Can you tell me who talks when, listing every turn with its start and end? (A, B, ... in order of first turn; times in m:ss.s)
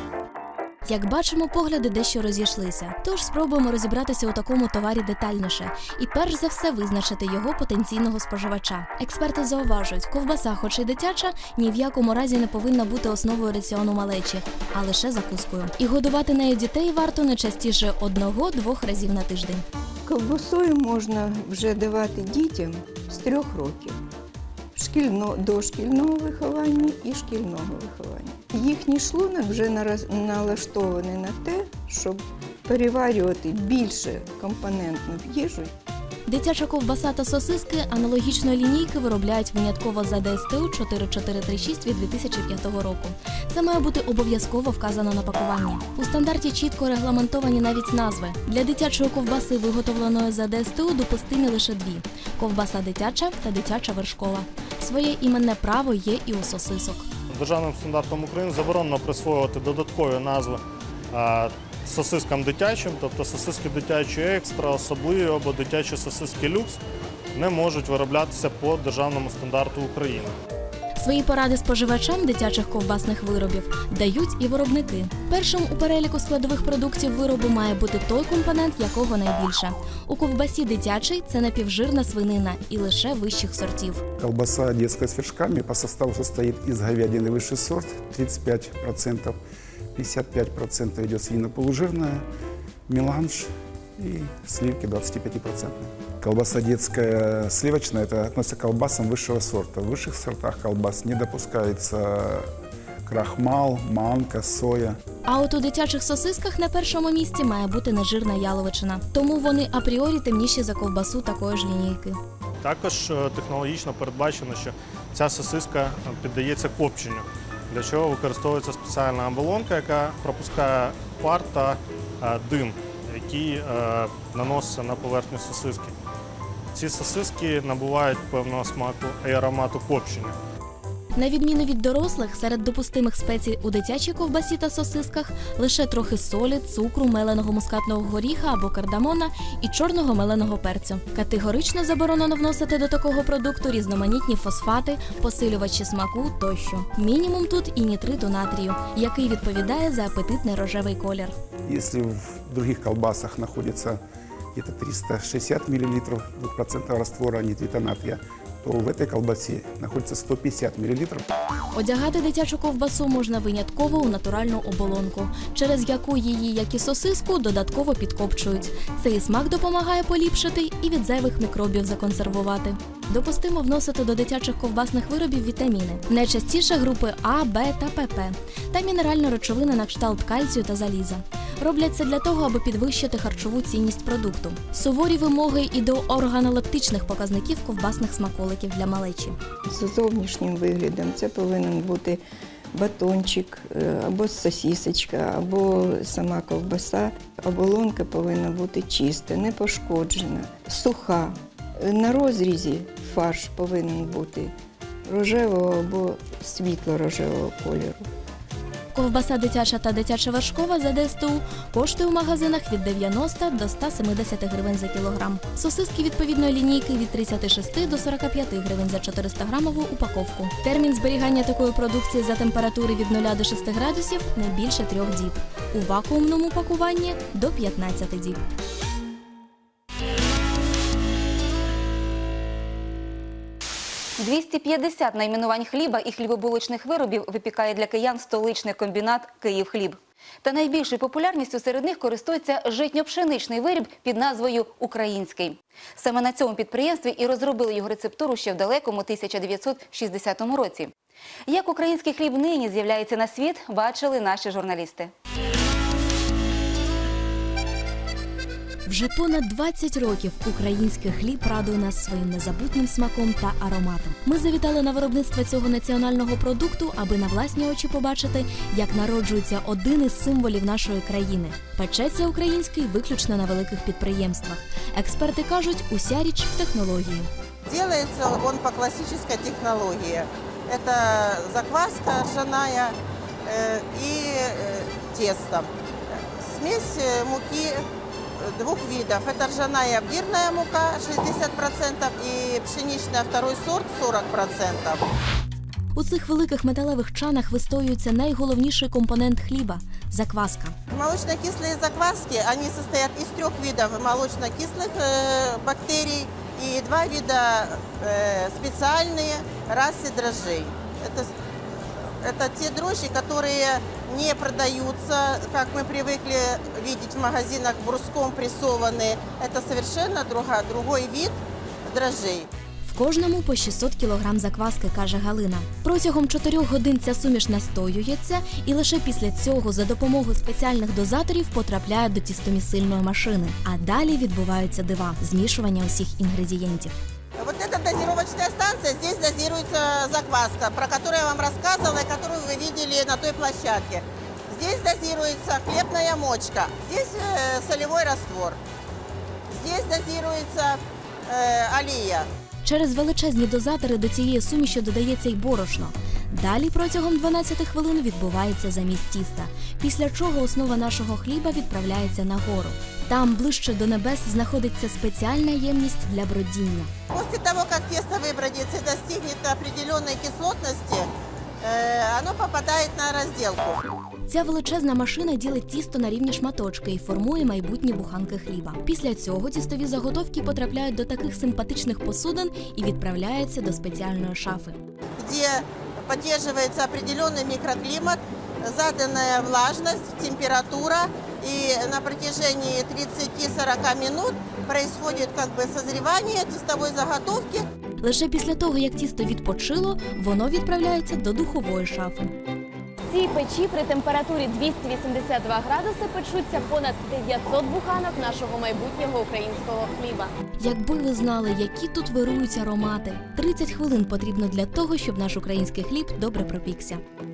0:00.9-0:19.6 A
0:20.0-0:24.0 B
0:24.7-0:35.7 B
0:36.3-0:57.1 A
0:57.3-1:00.6 C
1:01.1-1:06.8 C
1:07.3-1:10.3 C
1:11.0-1:24.0 A
1:24.2-1:29.4 D
1:29.9-1:32.2 D
1:32.9-1:42.5 D
1:43.0-1:45.0 D
1:45.2-1:52.2 A
1:52.6-2:05.9 C
2:06.7-2:10.3 C
2:11.2-2:31.3 A
2:31.6-2:34.0 D
2:34.5-2:41.2 D
2:41.7-3:09.4 A
3:09.7-3:12.2 B
3:12.7-3:24.5 B
3:25.1-3:28.1 B
3:28.9-3:48.4 A
3:54.2-4:10.9 E
4:11.5-4:15.1 E
4:18.8-4:37.3 A
4:37.7-4:42.9 F
4:43.4-4:47.8 F
4:48.4-4:55.0 F
4:55.9-5:00.7 A
5:00.9-5:11.3 F
5:12.2-5:22.5 F
5:22.8-5:36.9 A
5:37.4-5:48.6 F
5:49.5-5:52.3 F
5:52.6-6:06.9 A
6:07.1-6:11.1 F
6:11.6-6:13.8 F
6:14.3-6:24.8 A
6:25.2-6:37.7 F
6:38.0-6:42.3 A
6:43.1-6:50.3 G
6:50.6-6:57.0 A